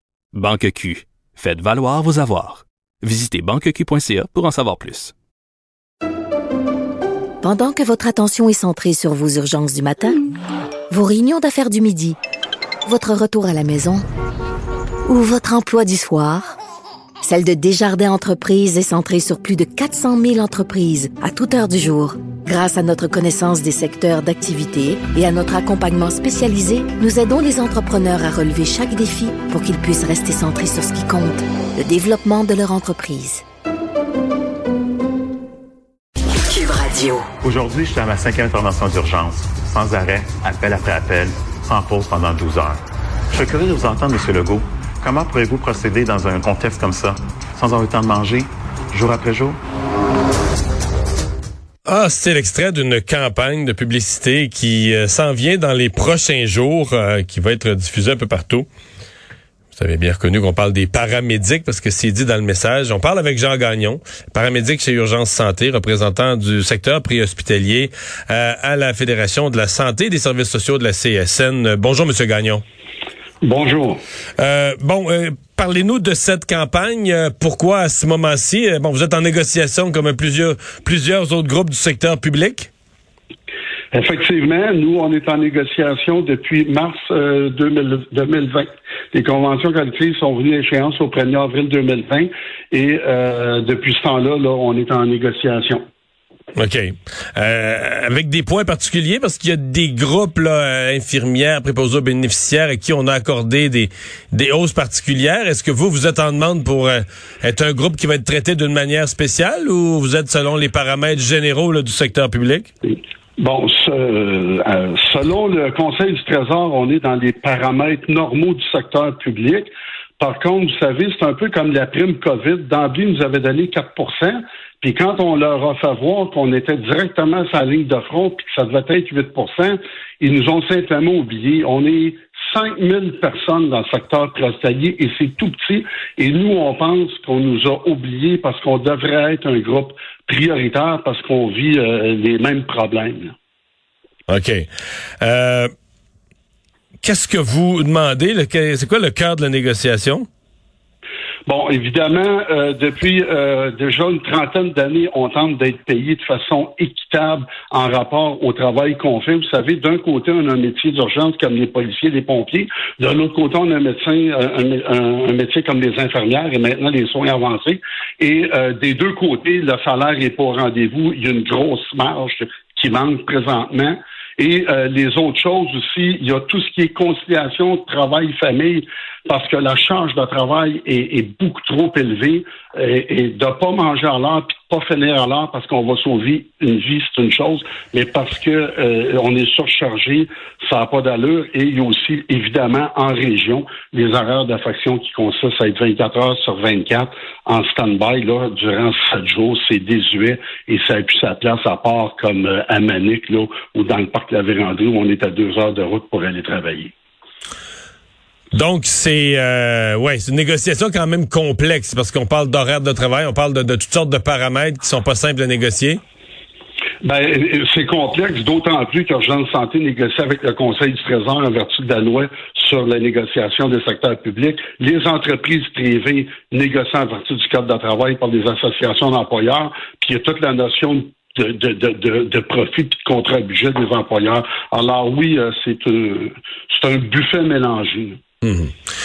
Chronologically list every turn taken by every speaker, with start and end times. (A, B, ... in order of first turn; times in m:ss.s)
0:00.3-0:05.1 A
0:07.4-0:10.2 B
0:10.9-0:12.2 B
0:12.8-0:14.0 B
0:15.1-0:16.6 B
0:17.2-0:33.4 B
0:36.5-0:37.3 B
0:37.4-0:49.6 C
0:51.8-0:58.7 D
0:59.8-1:12.6 D
1:13.4-1:14.0 E
1:14.4-1:22.7 D
1:23.9-1:35.8 E
1:36.6-1:52.7 D
1:52.8-1:59.7 E
2:00.2-2:23.3 E
2:24.3-2:24.7 D
2:25.2-2:25.7 D
2:27.0-2:30.2 D
2:31.4-3:26.9 E
3:28.5-3:36.0 D
3:37.0-3:58.2 E
3:58.4-3:58.7 D